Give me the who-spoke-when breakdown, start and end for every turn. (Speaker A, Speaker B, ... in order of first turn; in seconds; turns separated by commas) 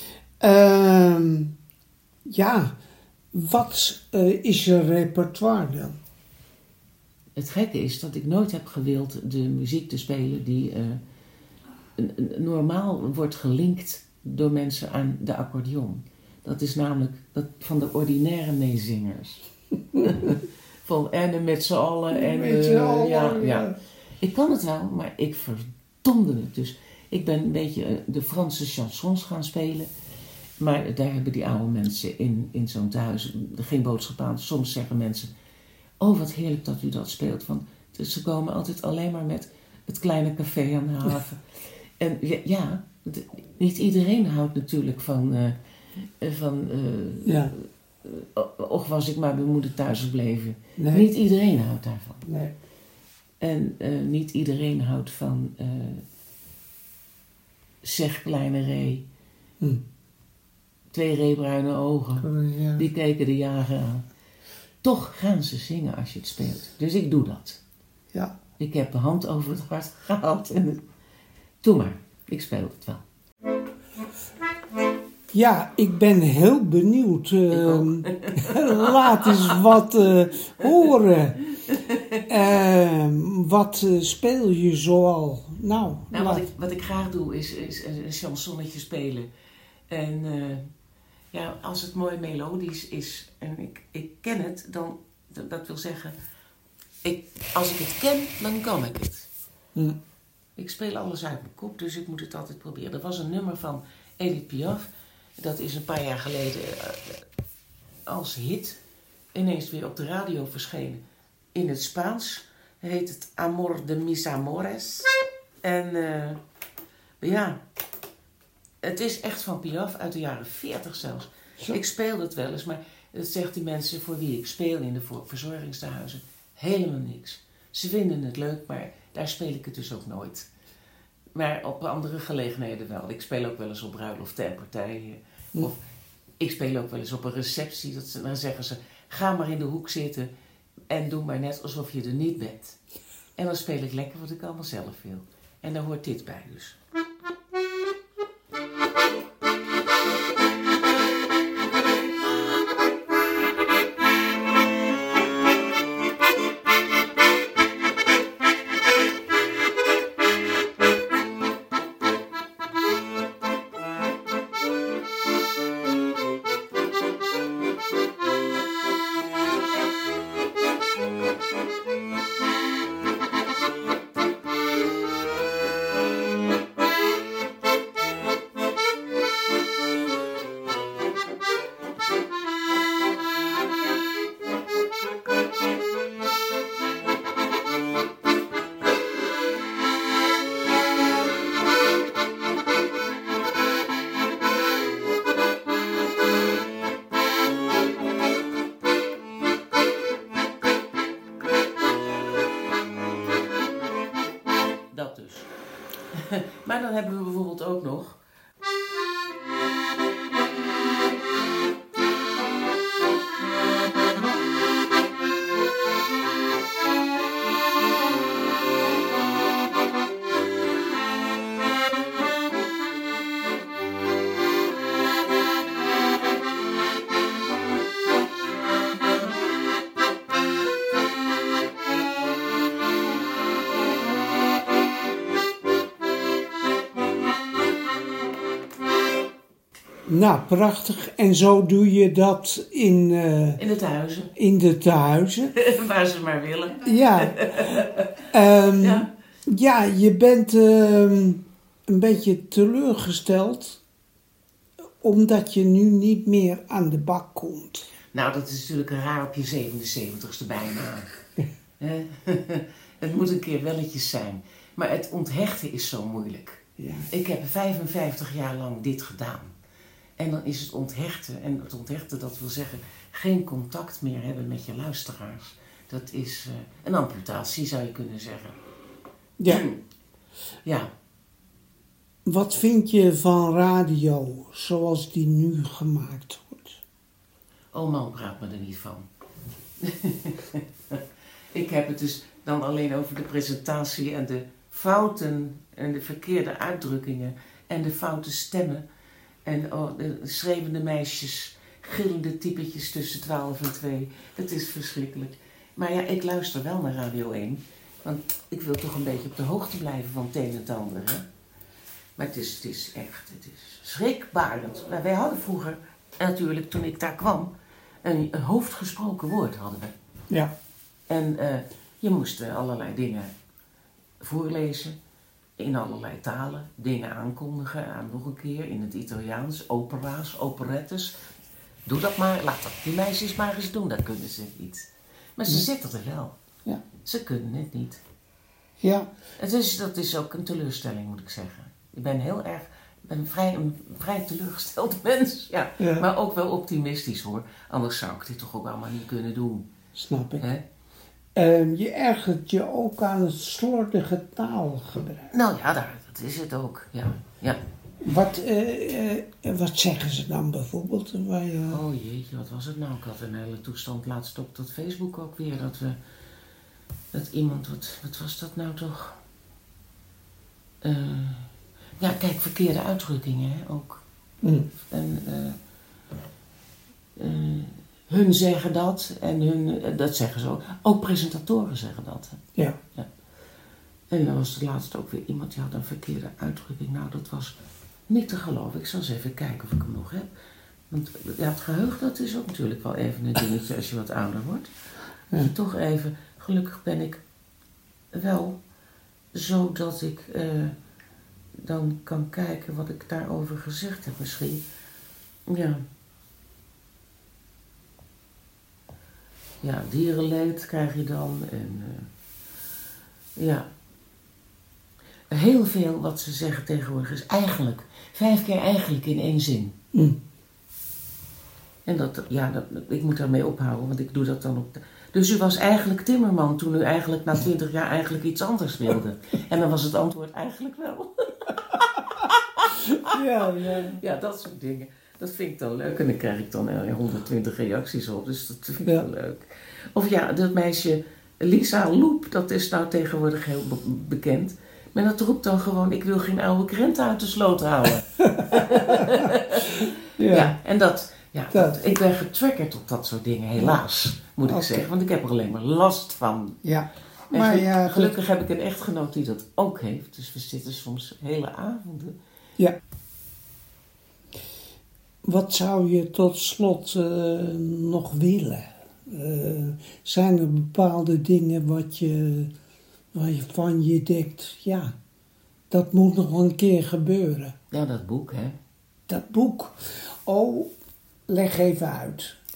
Speaker A: 0.4-1.5, Speaker A: 2.2-2.7, Speaker A: 3.3-5.9, Speaker B: 7.3-11.0, Speaker B: 12.0-29.9, Speaker A: 22.1-23.8, Speaker B: 30.6-35.3, Speaker B: 36.0-45.6, Speaker B: 46.2-52.2, Speaker A: 47.2-47.5, Speaker A: 50.8-51.1, Speaker A: 52.2-52.5, Speaker B: 53.4-56.0, Speaker B: 57.8-59.0, Speaker B: 60.9-64.0, Speaker A: 62.2-62.8, Speaker B: 64.8-67.6, Speaker B: 68.6-70.8, Speaker B: 71.6-73.0, Speaker A: 75.3-81.4, Speaker B: 77.5-79.6, Speaker B: 81.7-82.2, Speaker A: 82.2-86.5, Speaker B: 86.1-89.3, Speaker B: 89.9-90.7, Speaker B: 91.3-96.1, Speaker B: 97.0-99.3, Speaker B: 100.5-104.9, Speaker B: 105.4-107.2, Speaker B: 108.1-108.8, Speaker B: 109.3-111.0, Speaker B: 111.5-116.4, Speaker B: 117.2-117.6, Speaker B: 118.8-130.5, Speaker B: 131.3-135.8, Speaker B: 136.4-140.3, Speaker B: 140.9-142.8, Speaker B: 143.3-146.8, Speaker B: 204.9-205.5, Speaker B: 206.1-208.2, Speaker A: 240.1-243.6, Speaker B: 243.6-244.3, Speaker A: 244.3-245.5, Speaker B: 245.5-249.1, Speaker A: 246.8-253.8, Speaker A: 255.0-257.9, Speaker B: 258.1-261.2, Speaker B: 261.8-269.5, Speaker A: 266.8-267.1, Speaker B: 270.2-278.6, Speaker A: 279.4-279.6, Speaker B: 279.5-279.8, Speaker B: 280.6-280.9, Speaker A: 282.2-286.8, Speaker B: 287.7-289.1, Speaker B: 289.8-291.0, Speaker B: 291.5-298.8, Speaker B: 299.4-311.3, Speaker B: 312.2-317.5, Speaker B: 318.0-319.9, Speaker B: 321.1-323.3, Speaker B: 324.2-325.0, Speaker B: 325.6-331.2, Speaker B: 331.9-336.4, Speaker B: 337.0-338.0, Speaker A: 338.8-339.1, Speaker B: 339.4-349.7, Speaker A: 345.8-346.1, Speaker A: 349.9-350.4, Speaker B: 350.4-350.6, Speaker A: 351.3-355.3, Speaker B: 355.3-357.6, Speaker A: 358.0-361.8, Speaker B: 361.7-366.0, Speaker B: 367.1-369.2, Speaker B: 370.8-374.0, Speaker A: 374.4-374.7, Speaker B: 374.9-375.6, Speaker B: 377.1-382.4, Speaker B: 384.1-387.6, Speaker B: 388.1-390.3, Speaker B: 390.9-394.7, Speaker B: 395.3-397.2, Speaker B: 398.1-398.6, Speaker B: 399.3-400.8, Speaker B: 401.6-404.6, Speaker B: 405.5-405.8, Speaker B: 409.6-412.1, Speaker B: 413.4-413.7, Speaker B: 415.3-419.8, Speaker B: 421.9-456.6, Speaker A: 433.0-434.0, Speaker A: 438.8-439.1, Speaker A: 448.4-449.1, Speaker A: 450.2-450.5, Speaker A: 451.5-451.9, Speaker A: 454.4-454.9, Speaker A: 456.6-458.2, Speaker B: 457.3-462.2, Speaker A: 465.2-472.5, Speaker A: 473.1-474.9, Speaker A: 475.7-477.6, Speaker B: 477.7-478.6, Speaker A: 479.1-480.7, Speaker A: 481.3-482.4